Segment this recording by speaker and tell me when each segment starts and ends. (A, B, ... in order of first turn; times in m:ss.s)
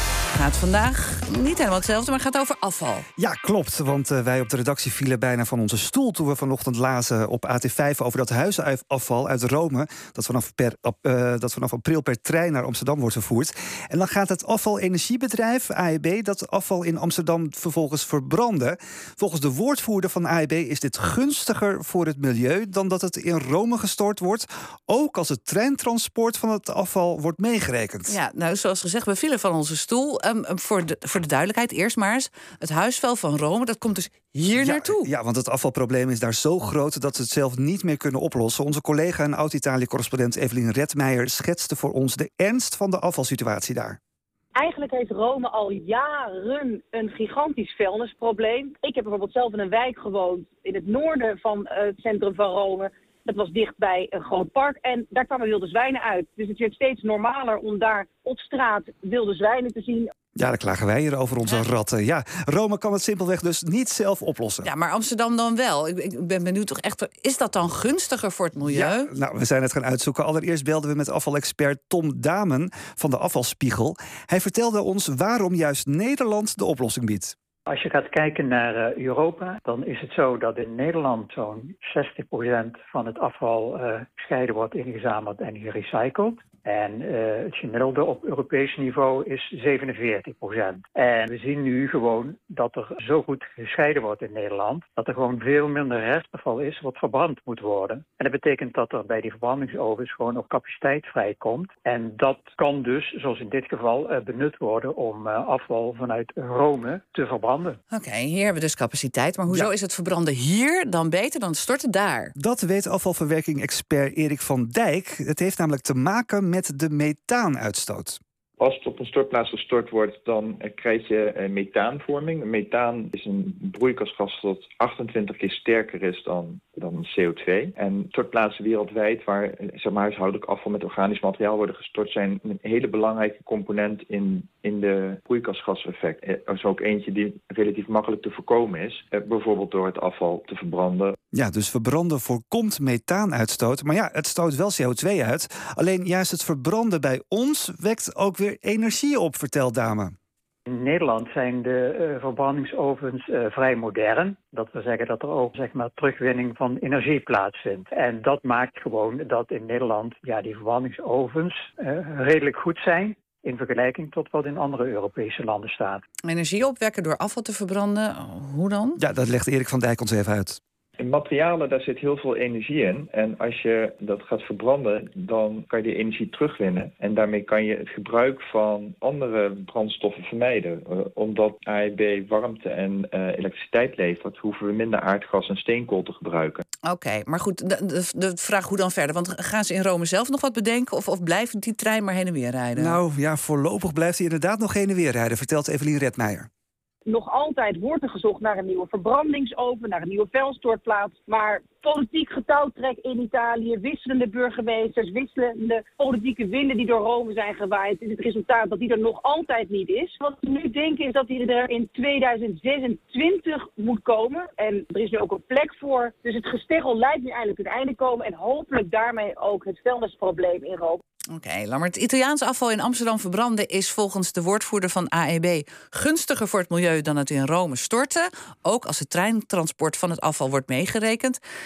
0:00.3-0:03.1 A
0:03.2-0:28.2 B
0:28.1-0:35.1 A
0:34.6-0:44.0 B
0:44.6-1:00.1 C
1:00.4-1:04.7 B
1:04.6-1:09.1 A
1:08.6-1:17.4 B
1:17.7-1:47.8 D
1:47.9-1:52.3 A
1:52.4-1:58.2 B
1:58.6-2:21.2 E
2:21.3-2:30.1 B
2:30.7-2:46.0 D
2:46.3-2:49.0 A
2:49.0-2:50.6 B
2:51.0-3:06.6 E
3:06.9-3:13.0 A
3:12.8-3:16.5 B
3:17.1-3:41.0 C
3:41.3-3:51.4 A